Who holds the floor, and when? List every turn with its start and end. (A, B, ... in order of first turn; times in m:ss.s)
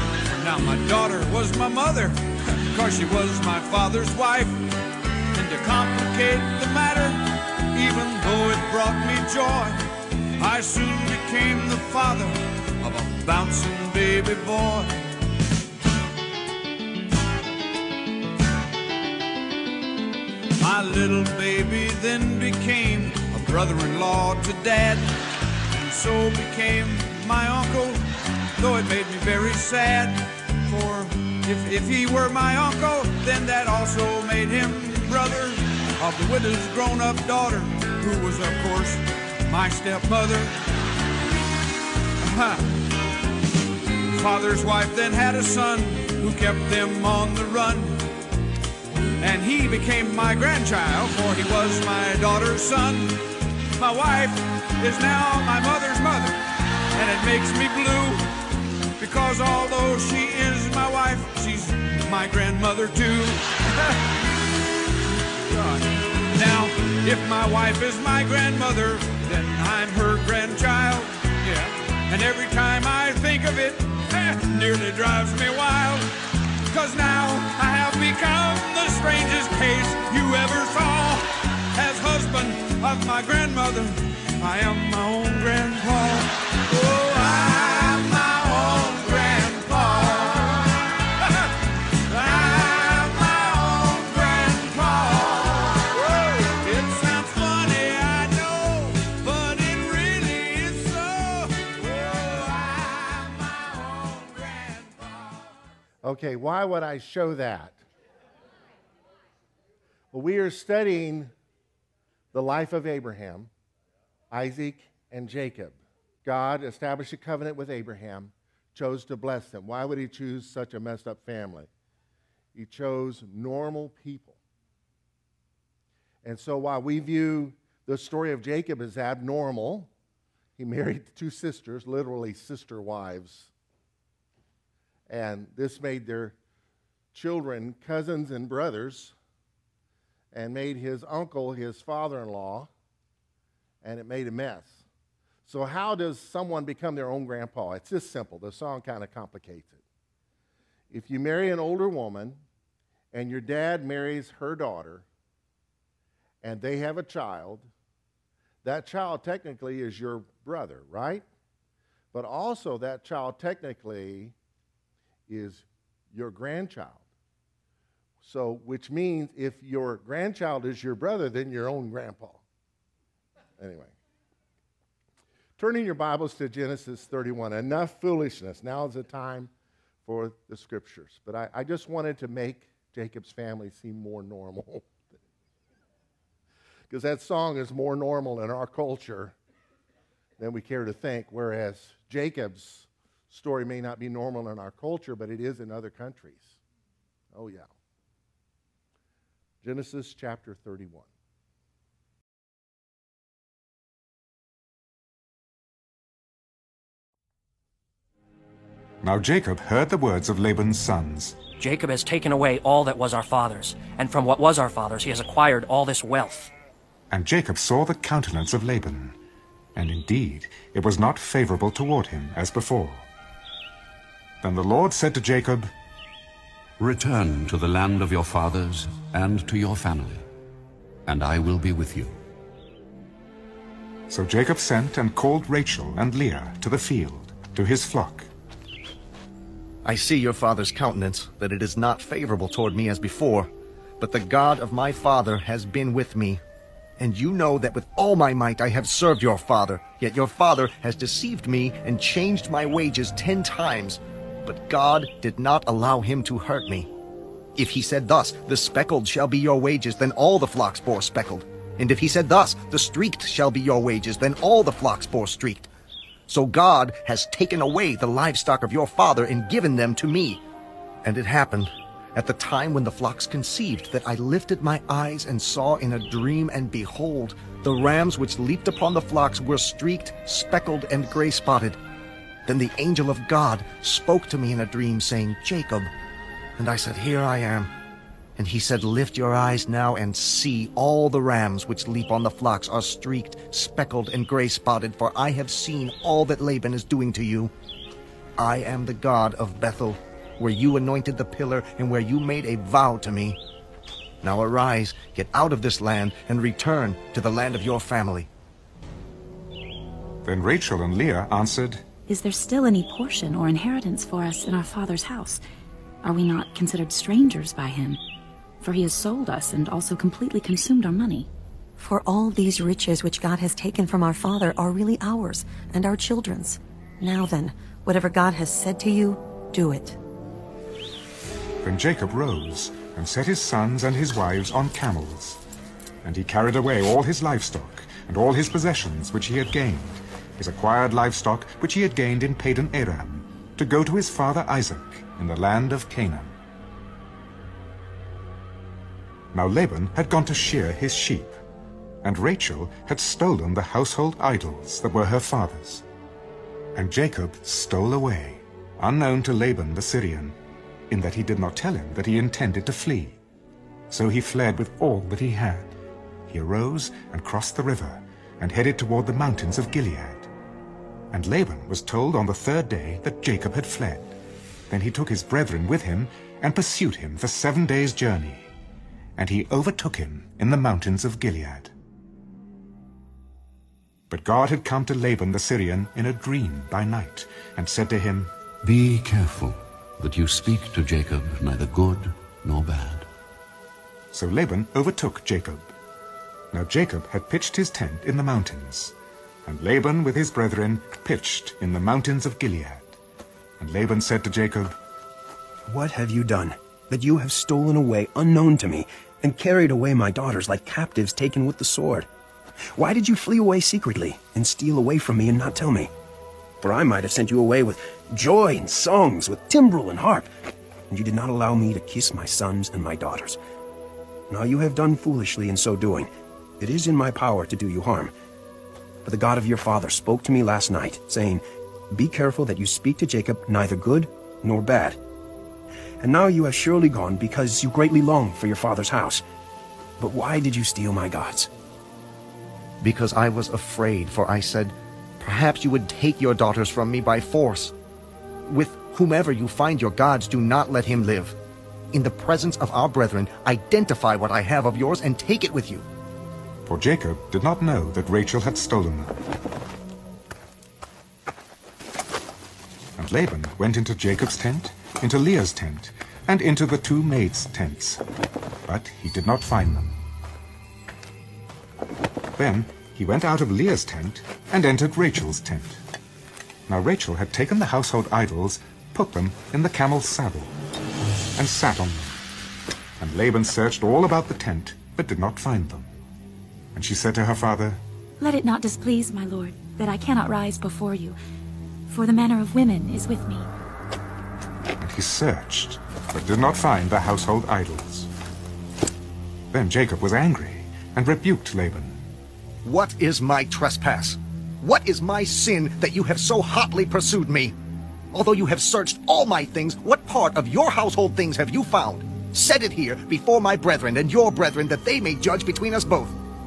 0:00.3-0:04.7 A
0:05.3-0:15.0 A
0:20.6-0:25.1 A
0:25.7-0:28.0 A
0:28.6-0:40.6 A
0:42.2-0:42.8 A
0:44.1-0:48.1 A
0:49.2-0:56.4 A
0:57.0-0:58.3 A
0:59.0-1:04.0 A
1:05.5-1:16.1 A
1:16.7-1:31.5 A
1:32.0-1:45.5 A
1:46.0-1:47.8 B
1:50.1-1:51.3 B
1:52.3-1:53.5 B
1:54.3-2:01.7 B
2:02.6-2:04.4 B
2:06.2-2:09.9 B
2:10.6-2:13.5 B
2:15.1-2:16.4 B
2:17.1-2:19.1 B
2:20.3-2:22.7 B
2:23.8-2:24.8 B
2:25.4-2:29.8 B
2:30.9-2:32.4 B
2:33.1-2:35.1 B
2:36.4-2:37.7 B
2:38.6-2:41.2 B
2:42.1-2:44.3 B
2:45.3-2:47.0 B
2:48.2-2:52.4 B
2:53.6-2:53.9 B
2:55.6-2:59.5 B
3:00.0-3:04.9 B
3:06.9-3:09.4 B
3:10.4-3:16.6 B
3:17.3-3:17.7 B
3:19.6-3:21.1 B
3:29.0-3:31.4 C
3:31.6-3:36.5 D
3:37.1-3:39.2 C
3:39.8-3:43.1 C
3:44.4-3:45.7 C
3:46.8-3:50.2 E
3:51.1-3:52.2 E
3:54.1-3:58.3 C
3:59.8-4:06.4 F
4:07.0-4:16.9 F
4:17.6-4:25.7 F
4:26.3-4:30.4 F
4:31.0-4:41.8 F
4:42.5-4:45.9 F
4:46.6-4:47.7 F
4:48.4-4:57.5 F
4:58.4-5:03.4 F
5:04.2-5:08.3 F
5:10.2-5:11.8 C
5:12.1-5:15.4 G
5:16.0-5:18.0 G
5:18.6-5:21.3 G
5:21.8-5:30.0 H
5:31.6-5:35.4 C
5:36.0-5:46.3 C
5:49.3-5:51.4 C
5:52.0-5:55.8 C
5:56.8-6:00.4 C
6:00.9-6:03.2 C
6:03.9-6:05.8 C
6:06.3-6:10.3 C
6:11.1-6:14.2 C
6:14.7-6:18.5 C
6:19.2-6:21.7 C
6:24.1-6:28.3 C
6:28.6-6:33.1 E
6:34.1-6:35.7 C
6:36.5-6:39.0 C
6:39.5-6:43.0 C
6:43.6-6:44.8 C
6:45.7-6:52.1 I
6:52.7-6:55.9 I
6:56.6-7:00.3 I
7:00.9-7:03.4 I
7:04.3-7:08.1 I
7:09.0-7:15.0 I
7:16.0-7:19.2 I
7:20.0-7:21.5 I
7:22.8-7:27.8 F
7:28.5-7:31.4 F
7:31.9-7:35.9 F
7:36.7-7:39.2 C
7:43.0-7:48.0 C
7:48.7-7:50.0 C
7:52.4-7:55.8 C
7:56.7-8:00.6 C
8:01.4-8:02.2 C
8:03.0-8:05.9 C
8:06.8-8:07.8 C
8:08.2-8:11.2 G
8:11.9-8:13.5 G
8:14.8-8:18.1 C
8:19.5-8:22.0 C
8:22.6-8:27.6 F
8:28.1-8:36.2 F